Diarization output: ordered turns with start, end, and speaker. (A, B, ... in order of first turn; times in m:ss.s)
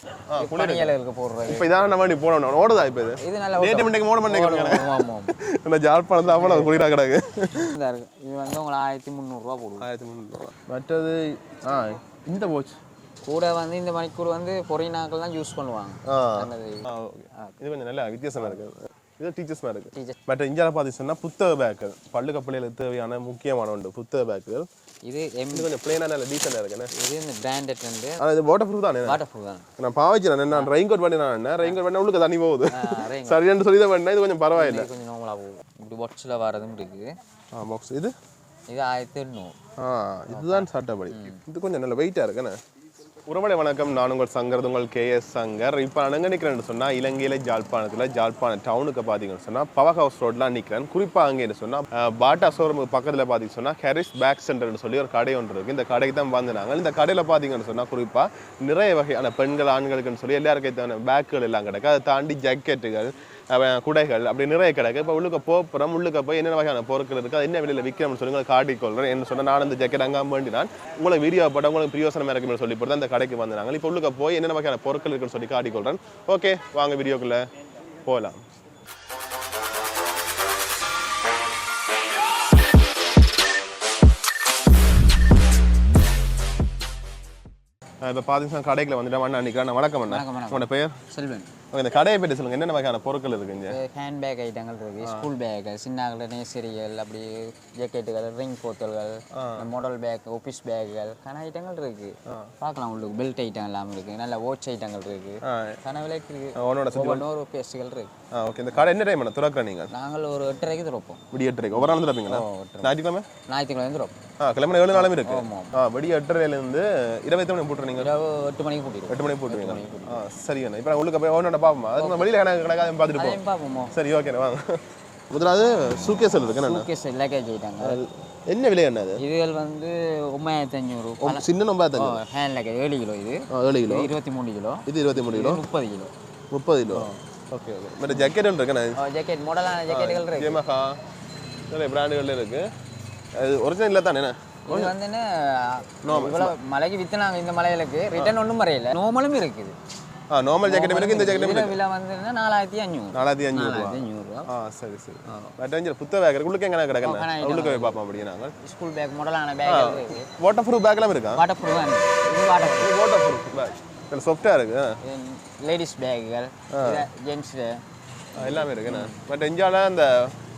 0:00.3-0:01.0 A
0:00.4-0:01.7 B
0:01.5-0:07.8 A
0:03.2-0:05.4 B
0:06.2-0:06.8 B
0:07.5-0:09.9 B
0:09.8-0:12.8 A
0:13.2-0:17.6 B
0:16.1-0:24.7 A
0:18.4-0:18.6 B
0:19.9-0:20.2 B
0:25.1-0:25.7 B
0:25.5-0:26.9 A
0:26.9-0:28.2 B
0:28.2-0:29.2 A
0:29.0-0:29.7 B
0:29.8-0:34.9 A
0:32.7-0:33.4 B
0:34.5-0:37.2 B
0:37.6-0:38.1 A
0:38.7-0:39.6 B
0:39.8-0:42.6 A
0:40.3-0:41.4 B
0:43.3-1:17.5 A
1:18.0-1:18.4 A
1:28.0-1:31.0 A
1:30.1-1:31.5 B
1:31.7-1:33.8 A
1:33.7-1:48.1 B
1:35.0-1:35.3 A
1:39.3-1:39.7 A
1:42.3-1:42.5 A
1:45.4-1:45.8 A
1:46.6-1:47.3 A
1:48.3-1:49.9 A
1:49.9-1:52.9 B
1:51.3-1:53.3 A
1:53.5-1:54.2 B
1:54.4-1:58.1 A
1:54.9-1:55.7 B
1:57.9-2:00.2 B
1:59.1-2:03.4 A
2:02.0-2:02.3 B
2:03.2-2:03.9 B
2:03.9-2:06.9 A
2:06.5-2:08.0 B
2:07.8-2:09.2 A
2:09.2-2:16.1 B
2:11.2-2:12.2 A
2:13.5-2:14.1 A
2:14.9-2:15.6 A
2:16.5-2:19.0 A
2:16.9-2:17.2 B
2:18.1-2:18.4 B
2:19.0-2:20.6 B
2:19.9-2:21.0 A
2:21.7-2:22.7 A
2:23.3-2:25.0 A
2:24.7-2:29.8 B
2:26.0-2:26.6 A
2:30.3-2:31.8 A
2:30.6-2:34.5 B
2:33.1-2:38.5 A
2:35.3-2:35.6 B
2:37.0-2:38.0 B
2:38.6-2:40.3 B
2:39.6-2:41.5 A
2:41.4-2:43.0 B
2:42.6-2:45.0 A
2:45.0-2:47.8 B
2:46.7-2:47.1 A
2:48.4-2:50.4 A
2:48.4-2:49.2 B